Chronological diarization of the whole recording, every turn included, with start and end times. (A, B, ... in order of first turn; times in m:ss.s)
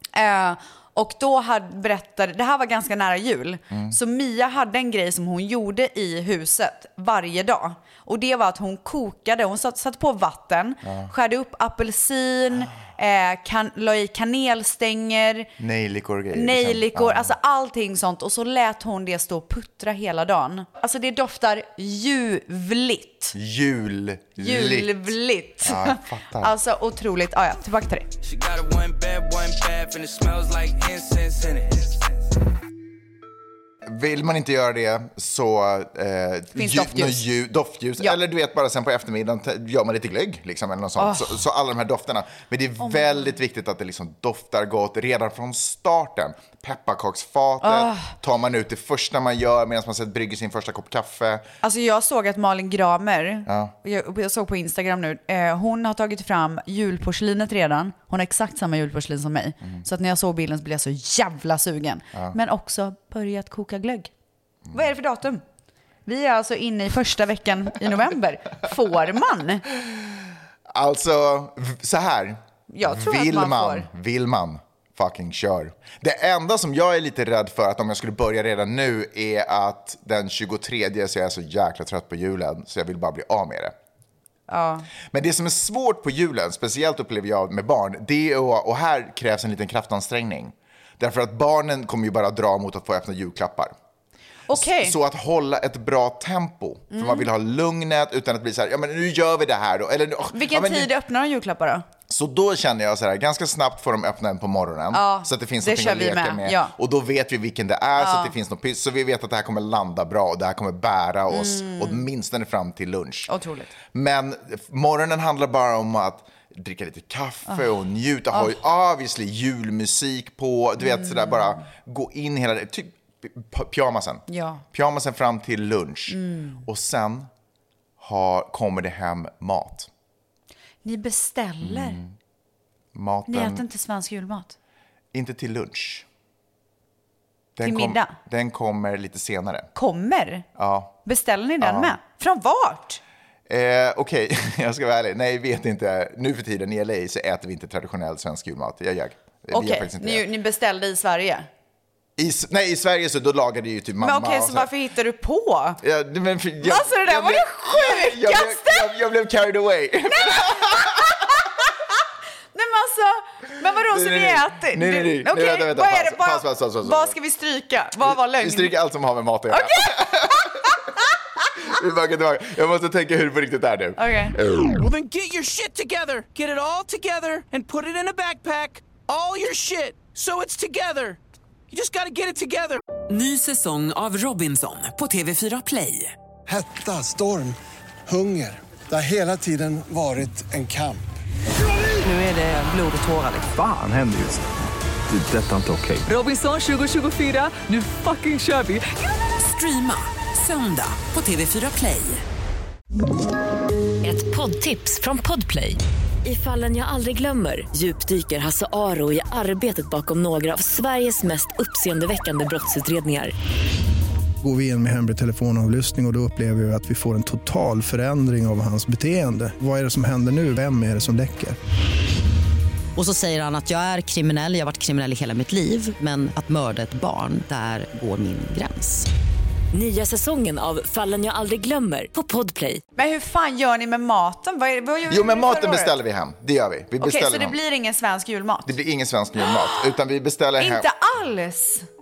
0:00.1-0:15.5 A
0:03.7-0:04.0 B
0:10.8-0:11.1 B
0:15.6-0:17.3 B
0:16.3-0:23.3 A
0:23.3-0:26.6 B
0:24.4-0:28.1 A
0:28.2-0:32.0 C
0:33.8-0:51.5 B
0:36.6-0:37.3 A
0:41.0-0:41.4 A
0:42.8-0:43.3 A
0:47.6-0:48.1 A
0:51.6-1:04.1 A
0:53.5-0:53.7 B
1:04.7-1:05.4 A
1:06.1-1:09.6 A
1:09.7-1:23.8 B
1:12.7-1:13.9 A
1:24.5-1:24.9 A
1:25.1-1:33.7 B
1:34.5-1:35.0 A
1:34.5-1:40.9 B
1:36.9-1:37.3 A
1:40.3-1:41.8 A
1:42.1-1:53.3 B
1:44.9-1:46.7 A
1:48.0-1:48.3 A
1:51.3-1:52.0 A
1:53.3-1:53.7 A
1:53.9-2:07.3 B
1:58.3-1:58.6 A
2:00.8-2:01.6 A
2:04.3-2:04.6 A
2:06.1-2:06.6 A
2:08.0-2:09.9 B
2:10.8-2:12.0 A
2:11.6-2:12.1 B
2:12.9-2:13.6 B
2:13.3-2:14.6 A
2:15.1-2:16.1 B
2:17.6-2:19.7 B
2:17.6-2:18.2 A
2:19.8-2:20.5 A
2:20.6-2:21.0 B
2:21.0-2:23.0 A
2:21.6-2:22.0 B
2:23.5-2:30.2 B
2:29.5-2:31.5 A
2:32.2-2:34.7 B
2:34.0-2:35.8 A
2:35.8-2:41.2 B
2:36.6-2:39.0 A
2:40.1-2:41.5 A
2:42.5-2:48.8 A
2:43.9-2:47.1 B
2:48.0-2:50.8 B
2:49.5-2:50.9 A
2:51.6-2:54.6 B
2:54.0-2:54.4 A
2:54.8-3:01.2 C
3:01.7-3:02.8 C
3:03.1-3:06.1 D
3:06.5-3:11.0 E
3:13.4-3:14.4 F
3:15.1-3:16.1 F
3:16.1-3:22.2 D
3:24.0-3:33.3 G
3:34.4-3:41.6 H
3:43.0-3:49.1 I
3:49.7-3:52.8 G
3:53.0-3:55.9 A
3:55.1-3:57.6 B
3:57.0-3:58.7 A
3:58.7-4:00.9 B
4:00.6-4:01.9 A